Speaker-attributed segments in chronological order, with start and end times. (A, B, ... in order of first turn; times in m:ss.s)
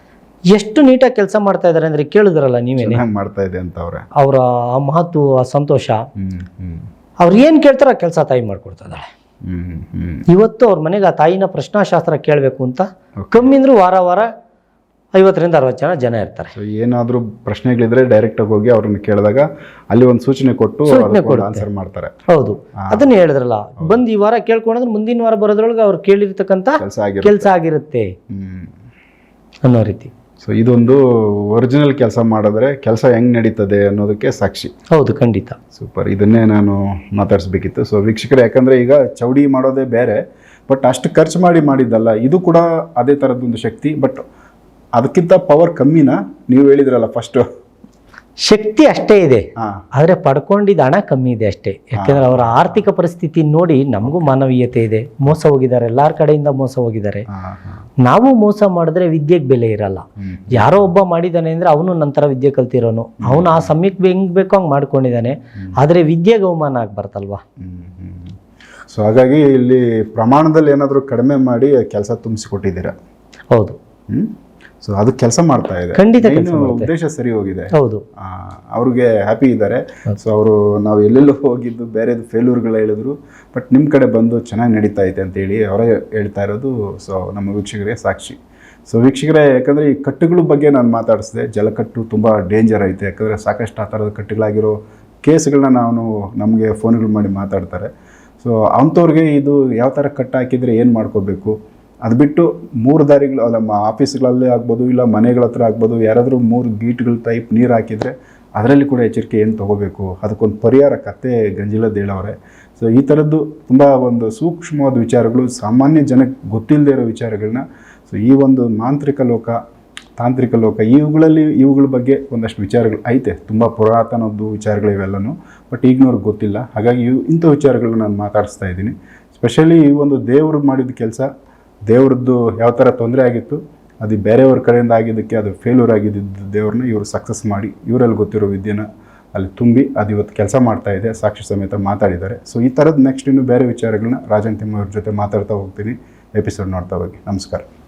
0:00.5-0:03.0 A
0:02.8-0:04.1 B
0:04.2-0:06.0 A
0:06.2-0:06.9 B
0:07.2-0:09.1 A
0:09.4-0:10.2 B
0:10.3-0:14.3 A
0:13.2-0:13.5 B
0:15.1-0:16.5 A
0:16.6-0:22.1 B
0:20.9-0:21.6 A
0:22.3-0:28.1 A
0:22.8-0:23.1 B
0:26.8-0:27.5 B
0:28.3-0:28.7 B
0:29.6-0:30.1 A
0:30.4-0:34.7 B
0:34.9-0:35.6 A
0:35.8-0:40.2 B
0:40.7-0:44.2 B
0:45.0-0:47.5 B
0:48.4-0:57.2 A
0:52.0-0:52.9 B
0:54.0-0:54.3 B
0:57.3-0:57.8 B
0:58.0-1:07.4 A
1:00.2-1:00.9 B
1:03.2-1:03.7 B
1:07.6-1:08.4 B
1:08.9-1:12.9 B
1:13.5-1:13.8 A
1:14.1-1:37.9 B
1:15.9-1:16.9 A
1:17.8-1:18.0 A
1:38.4-1:59.6 B
2:00.2-2:11.3 B
2:11.9-2:27.7 B